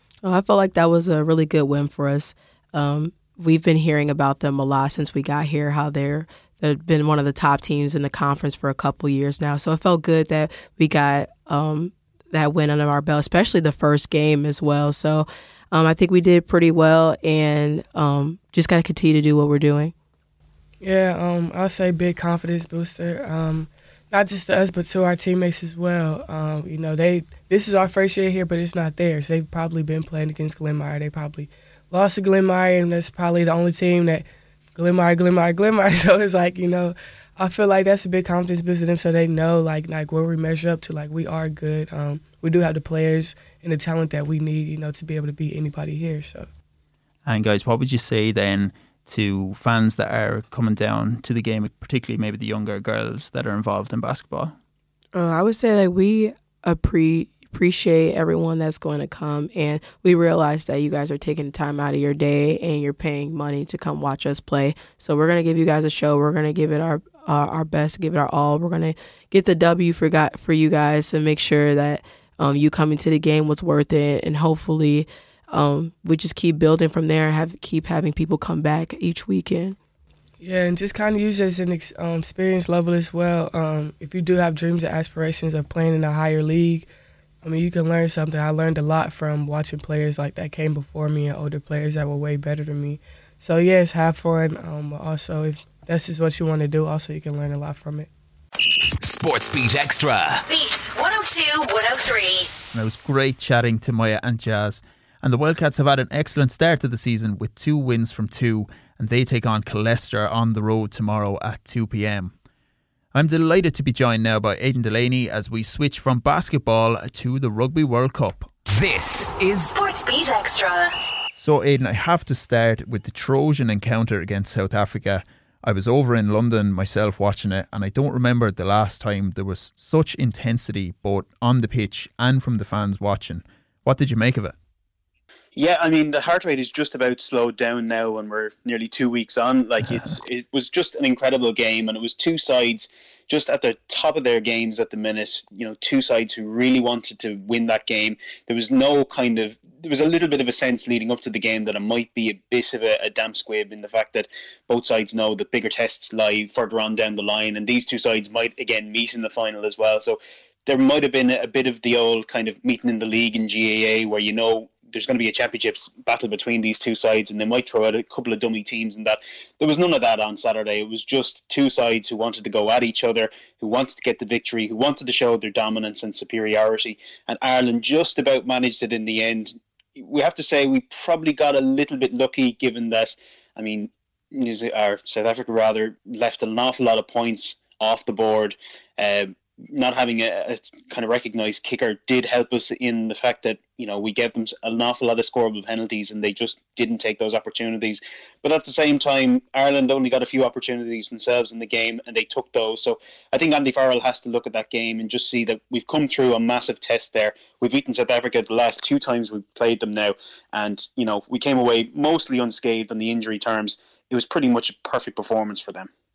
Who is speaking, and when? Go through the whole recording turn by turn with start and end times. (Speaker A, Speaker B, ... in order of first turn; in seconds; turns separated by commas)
Speaker A: 0.2-19.9, Speaker B: 20.8-34.2, Speaker B: 34.8-46.5, Speaker C: 47.2-54.5, Speaker A: 55.1-79.8, Speaker B: 80.4-86.9, Speaker B: 87.4-98.1, Speaker D: 99.0-100.4, Speaker E: 100.5-102.5, Speaker C: 102.7-112.3, Speaker C: 113.1-118.5, Speaker D: 118.7-119.7, Speaker E: 119.7-120.9, Speaker C: 121.4-134.5, Speaker F: 135.6-215.9